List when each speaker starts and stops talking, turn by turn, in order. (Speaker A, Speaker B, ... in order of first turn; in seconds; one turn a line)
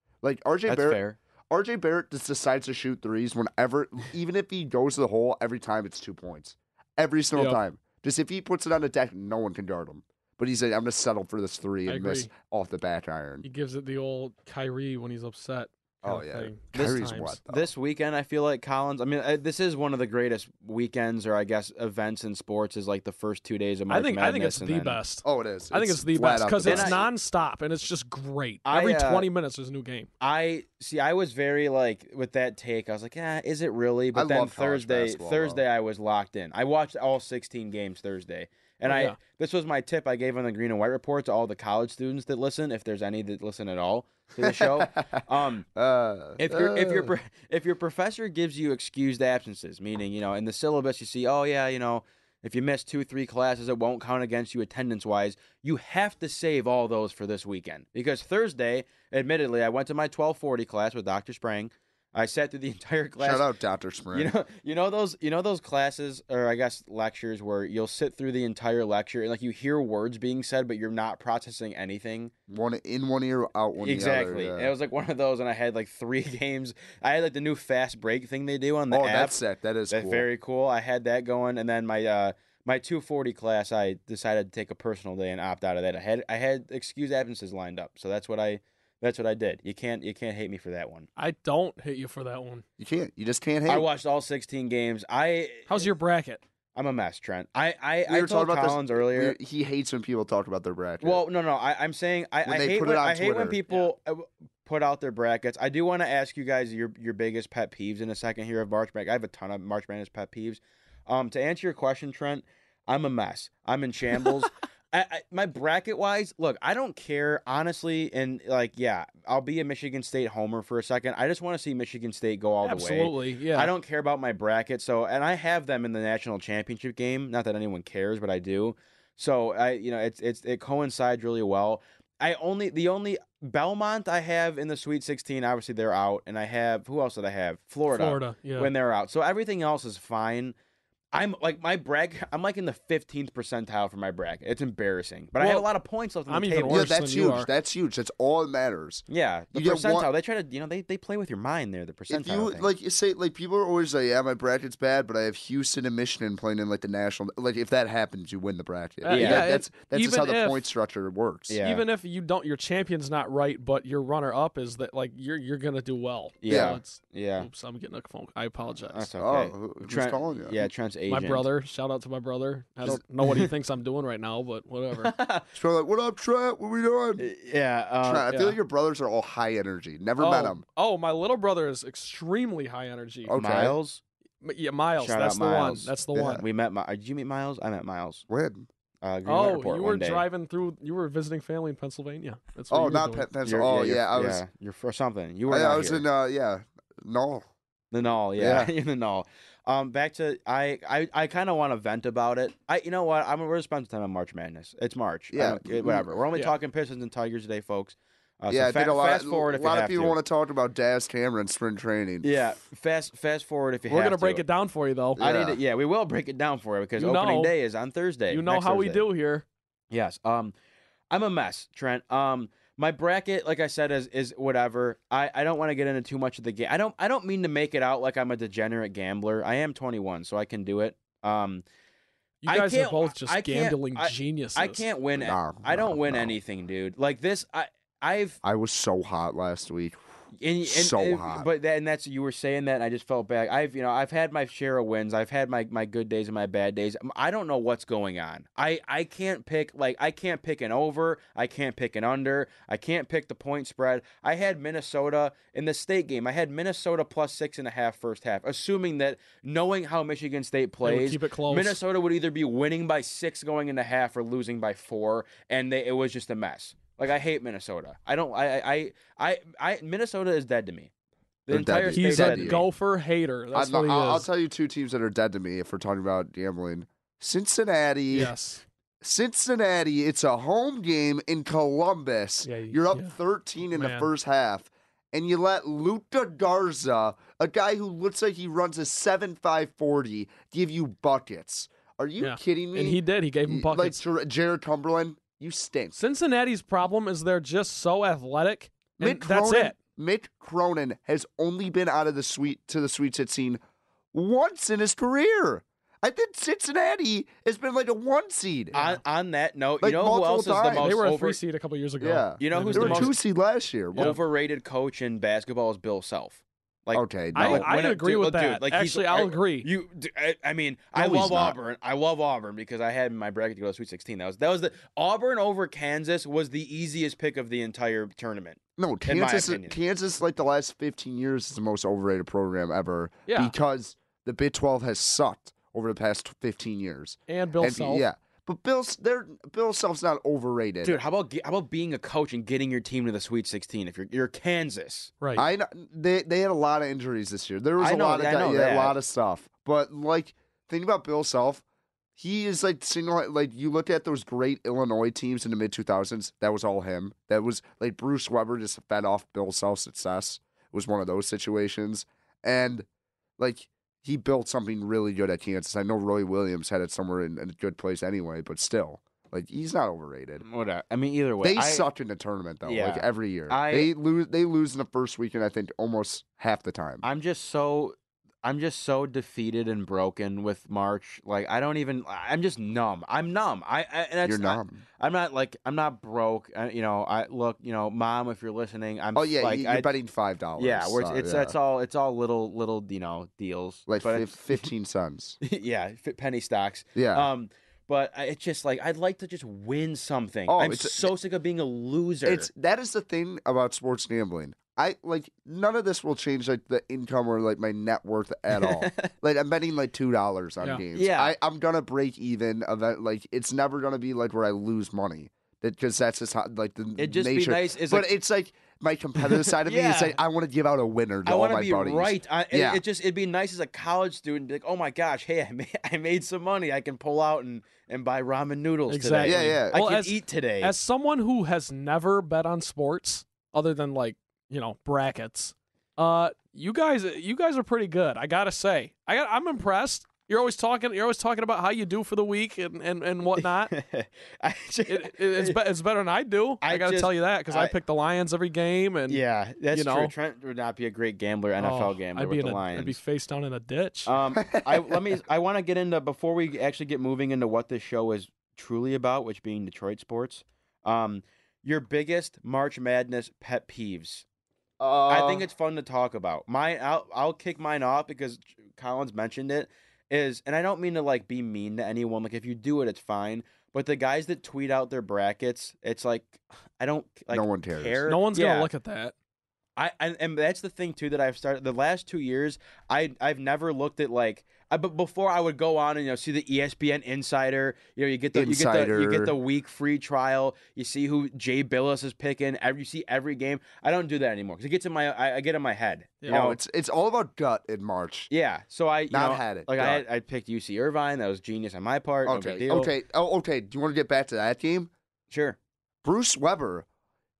Speaker A: 0.2-13.4
Speaker B: 0.7-1.2
Speaker C: 7.3-7.6
Speaker C: 11.8-12.3
Speaker C: 13.4-17.4
Speaker A: 16.0-17.6
Speaker B: 17.5-25.0
Speaker C: 23.9-30.1
Speaker A: 25.2-27.0
Speaker B: 26.6-27.1
Speaker B: 28.6-29.3
Speaker B: 30.2-45.7
Speaker A: 34.1-35.6
Speaker C: 38.9-39.2
Speaker A: 44.4-45.2
Speaker A: 45.7-47.1
Speaker B: 46.4-63.5
Speaker A: 63.2-64.3
Speaker B: 64.1-72.3
Speaker A: 72.5-74.7
Speaker B: 73.8-79.4
Speaker A: 78.9-80.2
Speaker B: 79.9-91.1
Speaker C: 91.2-92.6
Speaker A: 92.8-93.9
Speaker B: 93.7-95.8
Speaker C: 95.7-96.4
Speaker B: 96.7-99.3
Speaker A: 98.1-101.2
Speaker B: 101.0-140.5
Speaker A: 102.4-103.6
Speaker C: 122.6-123.7
Speaker C: 137.9-138.7
Speaker B: 141.1-146.9
Speaker C: 145.4-145.6
Speaker C: 146.3-147.5
Speaker A: 146.7-149.0
Speaker B: 149.1-152.7
Speaker A: 149.5-150.1
Speaker A: 152.1-161.6
Speaker C: 159.0-160.6
Speaker B: 159.1-159.5
Speaker B: 161.5-161.8
Speaker C: 161.6-169.1
Speaker B: 166.4-167.5
Speaker A: 166.5-166.8
Speaker B: 168.9-171.5
Speaker A: 169.2-170.7
Speaker C: 171.1-175.1
Speaker B: 172.9-173.5
Speaker B: 174.9-175.4
Speaker A: 175.5-177.2
Speaker B: 177.2-178.3
Speaker A: 178.0-180.6
Speaker C: 178.3-178.5
Speaker C: 180.2-183.3
Speaker A: 183.2-183.8
Speaker B: 183.3-184.0
Speaker C: 184.4-186.4
Speaker B: 185.0-188.2
Speaker A: 186.1-186.4
Speaker A: 188.3-188.7
Speaker B: 189.0-190.2
Speaker C: 189.2-193.3
Speaker A: 192.7-194.4
Speaker B: 193.4-196.0
Speaker A: 195.5-197.4
Speaker B: 197.9-210.2
Speaker A: 198.4-198.7
Speaker A: 205.3-206.2
Speaker A: 208.5-212.4
Speaker B: 212.2-214.4
Speaker C: 213.9-215.2
Speaker B: 215.2-219.0
Speaker A: 215.2-215.6
Speaker C: 217.0-217.5
Speaker C: 218.3-219.4
Speaker B: 219.9-220.5
Speaker B: 221.1-231.6
Speaker C: 232.4-234.8
Speaker B: 232.4-238.4
Speaker A: 235.2-236.3
Speaker A: 238.4-240.0
Speaker B: 240.4-270.9
Speaker A: 240.7-241.5
Speaker C: 260.8-261.8
Speaker B: 271.4-272.6
Speaker A: 271.5-272.6
Speaker C: 271.9-274.3
Speaker A: 273.5-278.3
Speaker C: 278.1-278.6
Speaker A: 279.0-296.0
Speaker C: 282.4-283.1
Speaker C: 283.7-284.1
Speaker C: 292.2-294.0
Speaker C: 296.0-299.7
Speaker A: 299.0-303.6
Speaker A: 304.1-308.8
Speaker C: 308.7-309.0
Speaker B: 308.7-311.4
Speaker A: 309.8-310.9
Speaker C: 310.7-313.1
Speaker A: 312.0-314.2
Speaker B: 312.4-313.2
Speaker B: 313.9-329.8
Speaker A: 316.9-317.7
Speaker C: 317.3-319.7
Speaker A: 320.9-321.6
Speaker A: 328.8-341.0
Speaker C: 333.3-333.5
Speaker C: 337.3-338.1
Speaker B: 340.8-345.1
Speaker C: 345.2-345.4
Speaker A: 345.3-351.6
Speaker B: 347.8-348.9
Speaker A: 352.2-362.9
Speaker A: 363.4-370.4
Speaker B: 370.4-371.9
Speaker A: 371.4-377.0
Speaker B: 372.6-373.9
Speaker B: 377.0-389.9
Speaker A: 384.2-384.8
Speaker A: 389.1-391.6
Speaker B: 390.6-394.7
Speaker A: 393.9-395.4
Speaker B: 395.4-402.5
Speaker A: 396.9-397.3
Speaker A: 400.5-401.1
Speaker A: 402.2-422.8
Speaker B: 408.6-409.1
Speaker B: 410.9-411.3
Speaker B: 417.0-418.1
Speaker B: 419.2-420.2
Speaker B: 421.2-430.7
Speaker C: 428.9-443.7
Speaker A: 429.2-429.8
Speaker B: 443.7-445.6
Speaker C: 444.9-449.2
Speaker B: 446.6-447.7
Speaker B: 449.1-453.0
Speaker C: 449.7-450.1
Speaker C: 451.6-454.1
Speaker B: 454.1-464.2
Speaker A: 454.4-455.0
Speaker A: 464.8-465.5
Speaker B: 465.1-478.7
Speaker A: 477.3-478.0
Speaker C: 478.1-479.1
Speaker B: 479.8-496.6
Speaker A: 488.3-489.3
Speaker A: 496.3-498.3
Speaker B: 498.3-502.9
Speaker A: 499.1-500.0
Speaker A: 502.2-504.9
Speaker B: 505.3-505.6
Speaker A: 506.0-506.9